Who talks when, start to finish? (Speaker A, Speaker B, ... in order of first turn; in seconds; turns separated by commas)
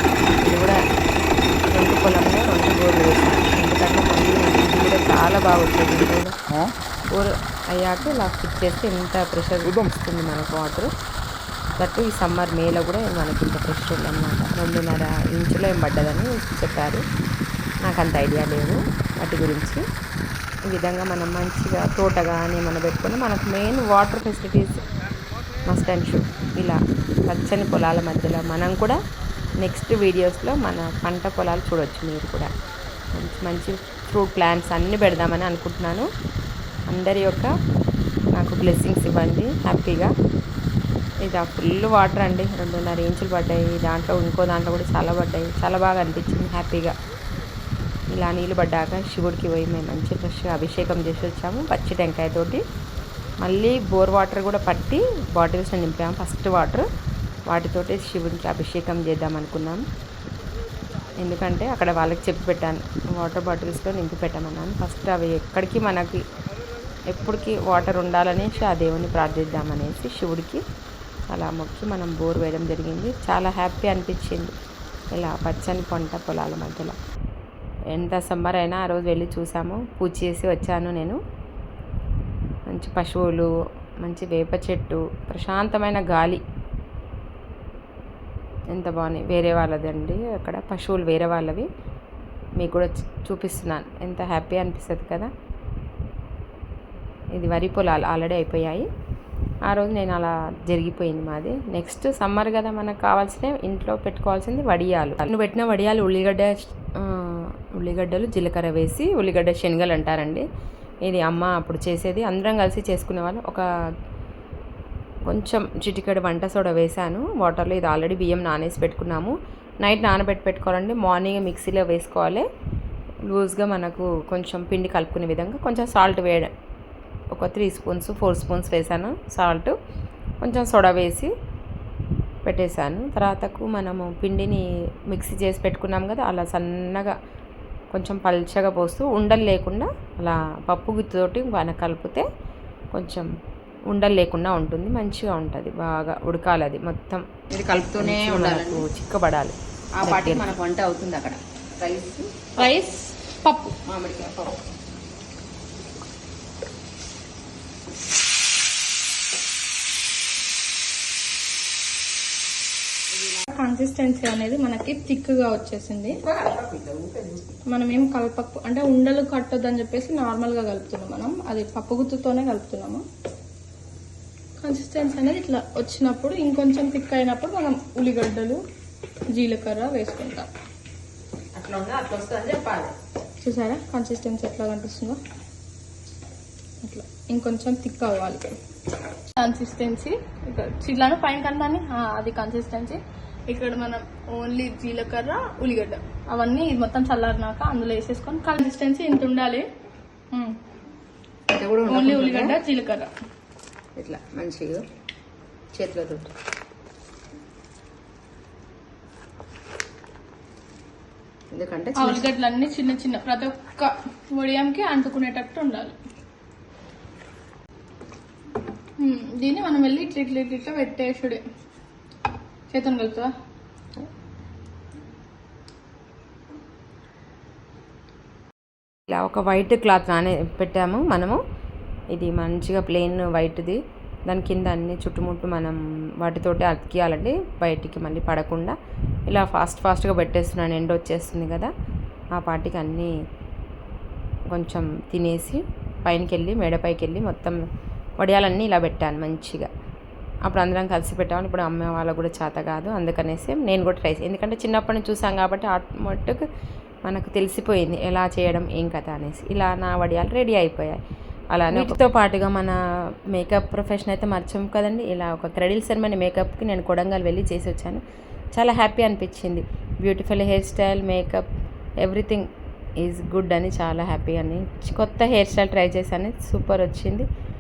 Speaker A: 0.4-0.8, Speaker A: 1.7-6.3, Speaker A: 7.1-10.9, Speaker A: 11.8-17.0, Speaker A: 17.8-19.8, Speaker A: 20.6-24.8, Speaker A: 25.6-29.0, Speaker A: 29.6-32.5, Speaker A: 33.1-36.1, Speaker A: 36.9-37.5, Speaker A: 38.3-40.1, Speaker A: 41.2-46.9, Speaker A: 48.1-52.6, Speaker A: 53.4-56.9, Speaker A: 57.5-59.8, Speaker A: 61.2-66.2, Speaker A: 67.1-70.6, Speaker A: 71.3-74.5, Speaker A: 75.1-77.0, Speaker A: 77.9-81.2, Speaker A: 82.7-83.5, Speaker A: 84.0-86.4, Speaker A: 88.7-91.7, Speaker A: 92.6-95.3, Speaker A: 97.3-98.9, Speaker A: 99.7-110.5, Speaker A: 111.0-113.6, Speaker A: 115.3-122.5, Speaker A: 123.3-126.5, Speaker A: 127.3-129.8, Speaker A: 130.4-131.3, Speaker A: 132.4-137.1, Speaker A: 137.9-142.2, Speaker A: 142.9-143.3, Speaker A: 143.9-147.2, Speaker B: 147.5-148.9, Speaker A: 148.0-150.6, Speaker B: 150.0-152.7, Speaker C: 152.6-153.8, Speaker B: 153.8-154.6, Speaker C: 163.5-166.2, Speaker B: 166.2-167.4, Speaker C: 167.7-173.0, Speaker C: 174.6-178.6, Speaker C: 179.3-180.5, Speaker B: 181.6-182.9, Speaker C: 183.4-185.2, Speaker C: 186.8-188.5, Speaker C: 189.4-199.7, Speaker B: 201.5-202.6, Speaker C: 201.9-203.1, Speaker B: 204.0-204.8, Speaker B: 205.7-206.3, Speaker B: 211.5-212.3, Speaker C: 212.0-216.0, Speaker C: 219.0-221.4, Speaker C: 222.7-223.3, Speaker A: 229.1-231.4, Speaker A: 232.1-238.8, Speaker A: 239.3-241.7, Speaker A: 242.3-243.1, Speaker A: 244.5-247.6, Speaker A: 248.2-249.7, Speaker A: 250.5-256.4, Speaker A: 257.1-261.0, Speaker A: 261.5-262.8, Speaker A: 263.3-268.0, Speaker A: 268.5-271.4, Speaker A: 272.0-272.5, Speaker A: 273.0-277.3